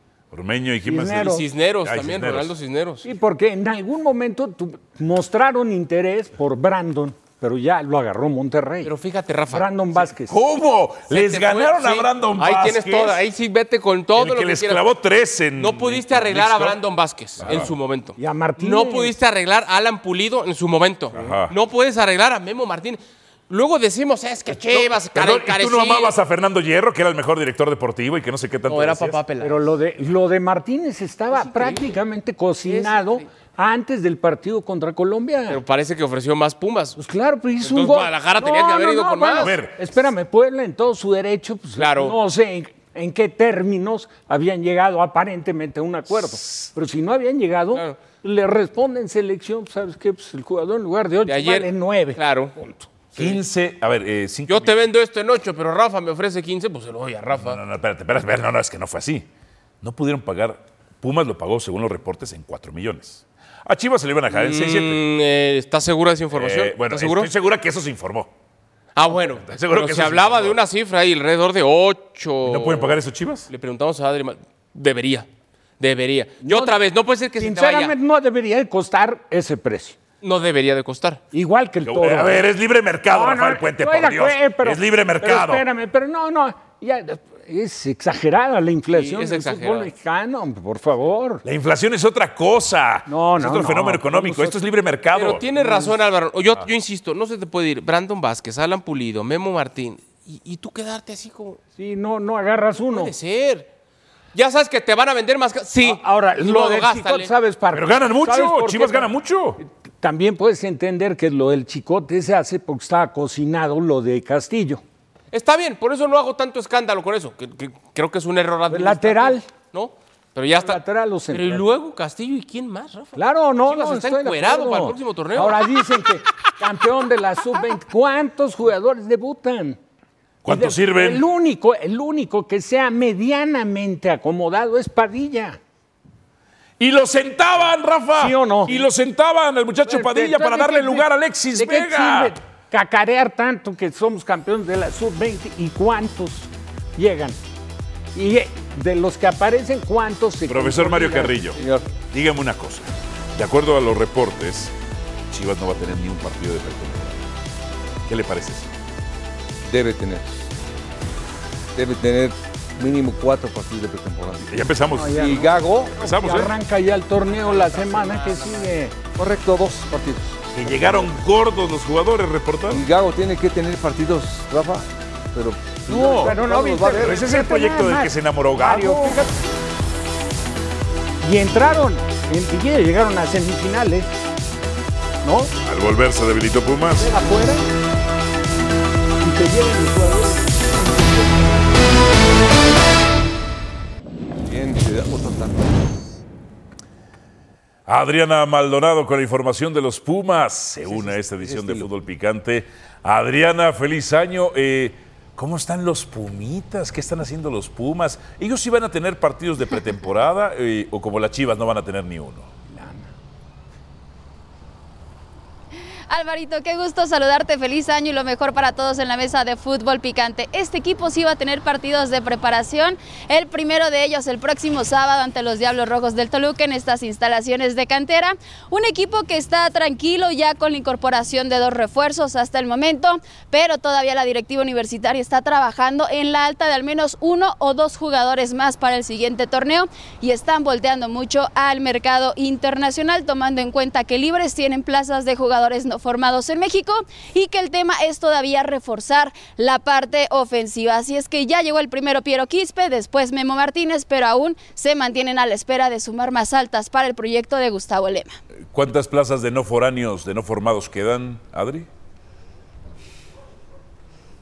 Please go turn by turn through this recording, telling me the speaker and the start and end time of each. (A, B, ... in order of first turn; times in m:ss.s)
0:00.3-0:02.5 A
0:00.9-0:01.4 B
0:01.1-0:03.1 C
0:03.0-0:08.9 B
0:08.8-0:10.0 C
0:09.5-0:10.4 B
0:10.3-0:13.2 A
0:11.1-0:14.9 C
0:14.2-0:16.8 A
0:15.6-0:26.2 C
0:17.4-0:17.7 A
0:18.2-0:19.1 B
0:21.1-0:21.5 A
0:24.7-0:29.2 A
0:28.7-0:29.7 C
0:29.4-0:35.6 B
0:31.3-0:31.9 C
0:32.6-0:33.3 C
0:35.5-0:37.0 C
0:37.0-0:52.9 B
0:37.6-0:39.5 C
0:39.4-0:39.8 A
0:41.8-0:42.2 C
0:46.2-0:46.7 A
0:51.3-0:52.6 C
0:53.2-0:53.4 C
0:53.2-0:54.8 A
0:54.5-0:57.6 C
0:57.3-0:59.3 A
0:59.8-1:05.0 A
1:04.3-1:07.3 C
1:06.3-1:08.3 A
1:09.0-1:13.0 C
1:09.1-1:10.6 A
1:12.4-1:13.5 A
1:13.5-1:15.3 C
1:15.8-1:18.0 C
1:16.4-1:16.8 B
1:17.4-1:20.0 B
1:20.2-1:21.2 C
1:21.3-1:22.4 B
1:21.8-1:25.6 A
1:23.1-1:31.4 B
1:28.9-1:29.9 C
1:31.4-1:35.4 A
1:33.1-1:34.6 B
1:35.1-1:41.6 C
1:35.6-1:35.9 B
1:41.8-1:43.1 B
1:42.9-1:43.7 C
1:44.3-1:47.3 C
1:45.8-1:54.8 B
1:47.7-1:49.6 A
1:55.3-2:05.9 C
1:58.7-1:59.5 B
2:00.6-2:01.7 B
2:03.2-2:09.8 B
2:10.4-2:11.2 A
2:10.5-2:15.6 B
2:16.8-2:22.4 A
2:18.2-2:18.8 B
2:19.8-2:27.4 B
2:28.2-2:31.6 B
2:30.5-2:34.7 A
2:31.6-2:31.9 D
2:35.3-2:37.2 A
2:38.1-2:38.7 A
2:39.6-2:40.5 D
2:41.8-2:44.5 D
2:44.5-2:46.5 A
2:45.0-2:49.0 B
2:45.1-2:46.0 D
2:47.2-2:48.8 C
2:49.2-2:50.9 D
2:50.5-2:52.9 A
2:52.7-2:57.2 D
2:55.9-2:59.4 B
2:55.9-2:56.3 A
2:57.0-2:59.3 A
3:01.2-3:04.1 B
3:05.2-3:05.5 B
3:05.6-3:07.1 A
3:06.9-3:07.7 B
3:09.2-3:11.4 B
3:14.4-3:15.9 D
3:17.9-3:32.5 A
3:20.8-3:21.9 D
3:32.7-3:33.1 B
3:36.1-4:18.3 E
4:18.7-4:21.9 A